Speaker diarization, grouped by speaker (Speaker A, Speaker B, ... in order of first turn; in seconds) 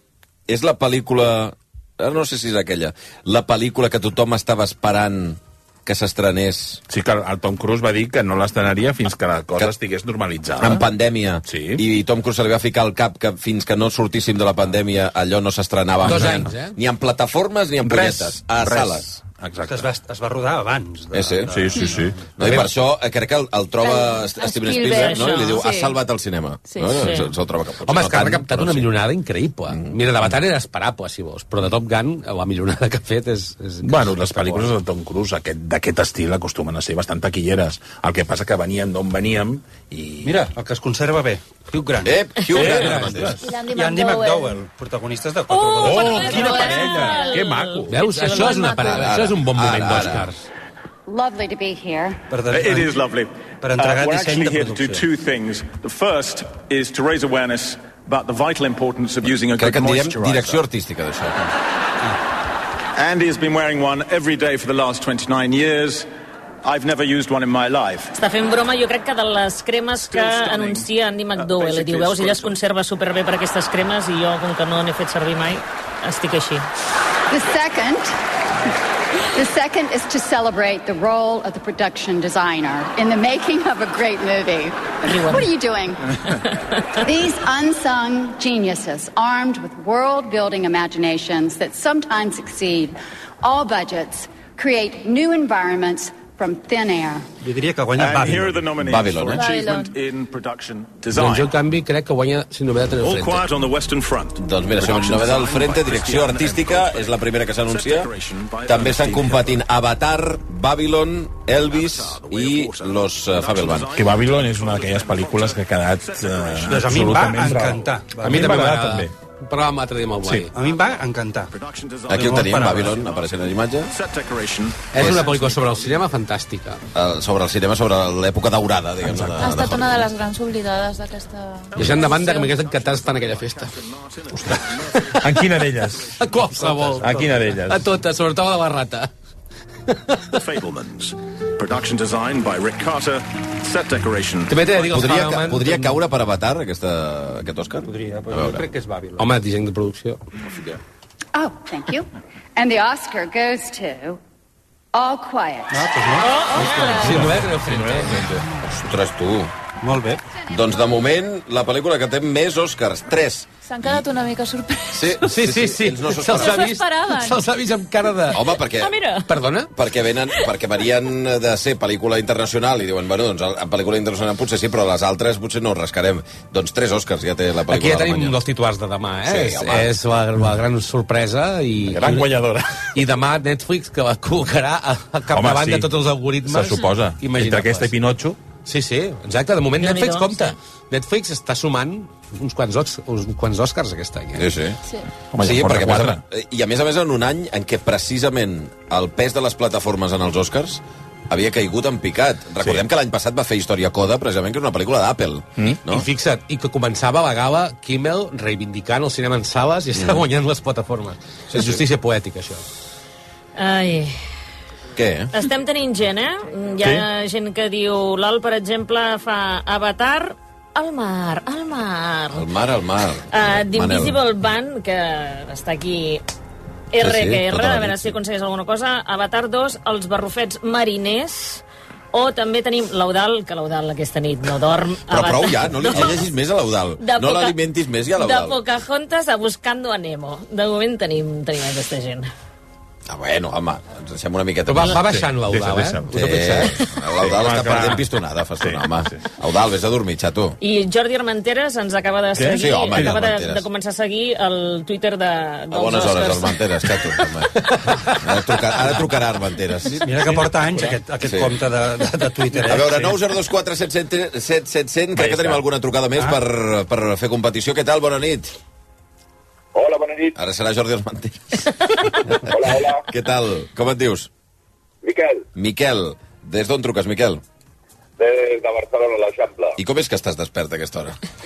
Speaker A: 0.5-6.8, 10.6-19.1, 21.1-28.9, 42.0-43.4, 48.8-50.3, 59.5-61.4, 98.8-99.4, 104.4-108.1, 108.7-113.9, 122.1-123.9, 125.0-125.2, 126.9-129.9, 144.8-148.7, 158.7-159.5, 160.5-164.0, 164.9-166.7, 168.3-168.9, 169.7-178.4, 179.3-179.9, 194.4-194.8, 195.4-206.1, 211.5-211.8, 215.0-215.3, 222.3-224.2, 227.0-228.2, 235.1-238.6, 243.1-245.0, 246.1-250.6, 252.4-253.6, 255.7-260.0, 261.2-261.6, 262.7-268.5, 270.4-271.7, 273.1-274.3, 275.6-277.4, 279.8-281.2
Speaker B: 6.9-10.9, 11.5-11.8, 17.8-19.9, 21.5-22.7, 33.8-40.4, 42.5-43.1, 45.8-48.0, 113.9-119.1, 120.2-120.5, 129.1-129.8, 135.2-136.2, 137.0-137.8, 157.2-158.5, 181.9-182.9, 185.3-185.9, 186.5-188.4, 195.3-196.2, 216.8-217.1, 244.9-246.1, 247.2-248.1, 248.6-249.3, 252.3-253.2, 260.2-261.0, 265.1-265.6
Speaker C: 16.0-16.8, 27.9-34.8, 42.6-43.6, 47.9-50.5, 101.1-103.5, 118.2-120.5, 124.9-126.8, 131.8-133.8, 134.3-139.1, 139.9-140.4, 144.5-146.0, 149.2-150.2, 156.9-158.3, 165.3-168.5, 169.3-169.7, 177.7-182.3, 182.9-187.9, 188.7-194.5, 205.9-212.7, 244.7-246.8, 257.7-258.0
Speaker D: 19.7-22.3, 40.2-47.1, 52.3-53.0, 53.6-55.1, 97.4-98.7, 116.7-118.7, 120.5-121.5, 122.1-123.0, 136.6-137.0, 147.8-149.3, 155.7-157.5, 159.8-160.2, 260.0-263.2
Speaker E: 21.8-22.0, 23.8-26.0, 26.7-27.1, 43.4-44.6, 46.0-47.4, 99.3-100.0, 129.4-132.5, 156.3-157.2, 163.7-165.4, 166.1-167.4
Speaker F: 24.8-25.4, 26.8-27.3, 45.5-49.1, 68.2-76.7, 85.1-85.5, 156.2-157.0, 168.7-169.3, 189.8-190.5, 213.6-214.2, 215.3-222.5, 223.3-226.2, 226.9-236.3, 237.0-237.6, 238.2-242.3, 250.6-256.6
Speaker G: 51.1-52.2, 77.3-78.1, 79.3-86.4, 87.0-97.3, 151.3-154.2, 154.9-156.2
Speaker H: 52.5-60.6, 63.0-66.1, 66.6-68.1, 70.0-72.6, 98.0-101.5, 103.0-109.7, 111.6-117.4, 120.6-121.0, 121.5-126.1, 131.7-136.1, 140.3-144.7
Speaker I: 269.7-270.4, 272.5-273.1, 275.0-275.4, 278.2-279.8